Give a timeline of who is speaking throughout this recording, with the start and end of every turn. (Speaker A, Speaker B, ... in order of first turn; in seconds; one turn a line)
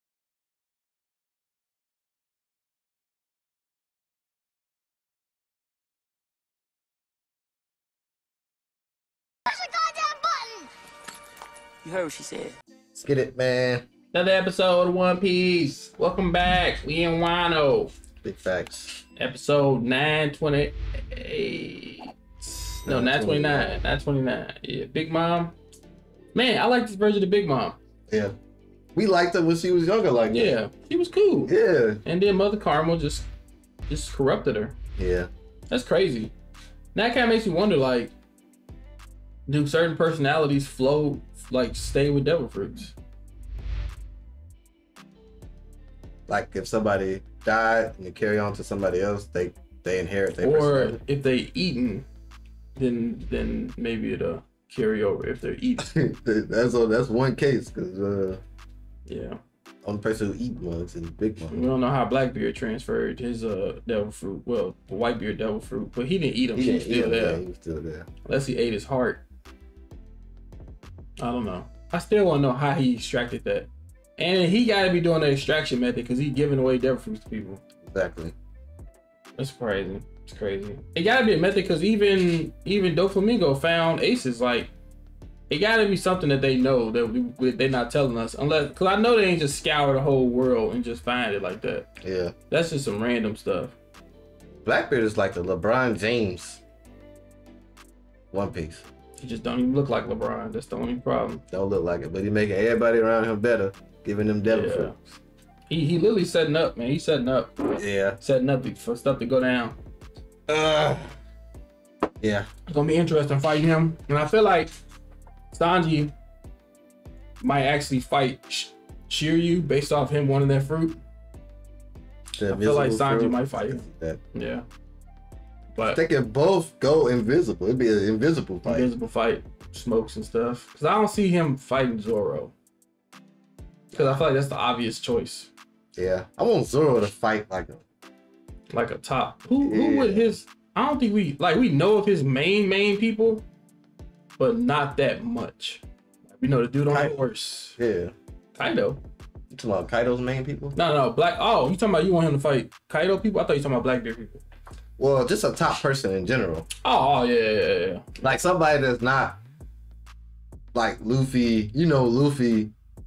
Speaker A: 9.5-10.7
Speaker A: 11.8-12.6
Speaker B: 12.9-13.9
Speaker C: 14.1-17.9
Speaker B: 18.2-19.0
Speaker C: 19.2-25.5
Speaker B: 22.8-23.8
Speaker C: 26.3-27.8
Speaker B: 28.1-28.3
Speaker B: 28.9-30.5
Speaker C: 30.3-31.5
Speaker B: 31.5-32.0
Speaker C: 32.0-33.3
Speaker C: 33.9-34.7
Speaker B: 35.0-35.3
Speaker C: 35.7-36.3
Speaker C: 36.9-38.1
Speaker C: 39.5-42.9
Speaker B: 46.3-51.0
Speaker C: 50.4-52.0
Speaker C: 52.8-55.9
Speaker B: 55.8-58.4
Speaker C: 59.1-59.4
Speaker B: 59.8-61.5
Speaker C: 61.5-67.4
Speaker B: 66.5-68.1
Speaker C: 68.2-69.2
Speaker C: 71.2-77.6
Speaker B: 77.8-78.3
Speaker C: 79.4-84.7
Speaker C: 85.5-91.9
Speaker B: 92.0-92.3
Speaker C: 92.5-93.8
Speaker B: 94.6-96.6
Speaker B: 98.3-98.8
Speaker C: 99.2-101.4
Speaker B: 101.5-105.2
Speaker C: 104.5-104.9
Speaker C: 105.7-107.6
Speaker B: 107.8-108.2
Speaker C: 108.2-109.8
Speaker B: 110.5-111.1
Speaker B: 112.2-112.5
Speaker C: 112.7-114.7
Speaker C: 115.5-116.1
Speaker C: 117.4-121.0
Speaker B: 122.4-124.2
Speaker C: 122.5-124.7
Speaker B: 125.8-128.9
Speaker C: 128.6-132.5
Speaker B: 133.9-134.2
Speaker C: 133.9-135.5
Speaker B: 135.9-137.8
Speaker C: 138.7-143.4
Speaker B: 139.6-140.4
Speaker C: 144.4-147.8
Speaker B: 146.9-147.2
Speaker B: 147.8-148.1
Speaker C: 148.6-149.0
Speaker B: 149.5-150.8
Speaker C: 150.8-154.4
Speaker B: 155.0-156.7
Speaker C: 156.8-158.2
Speaker B: 158.2-159.4
Speaker B: 160.7-162.7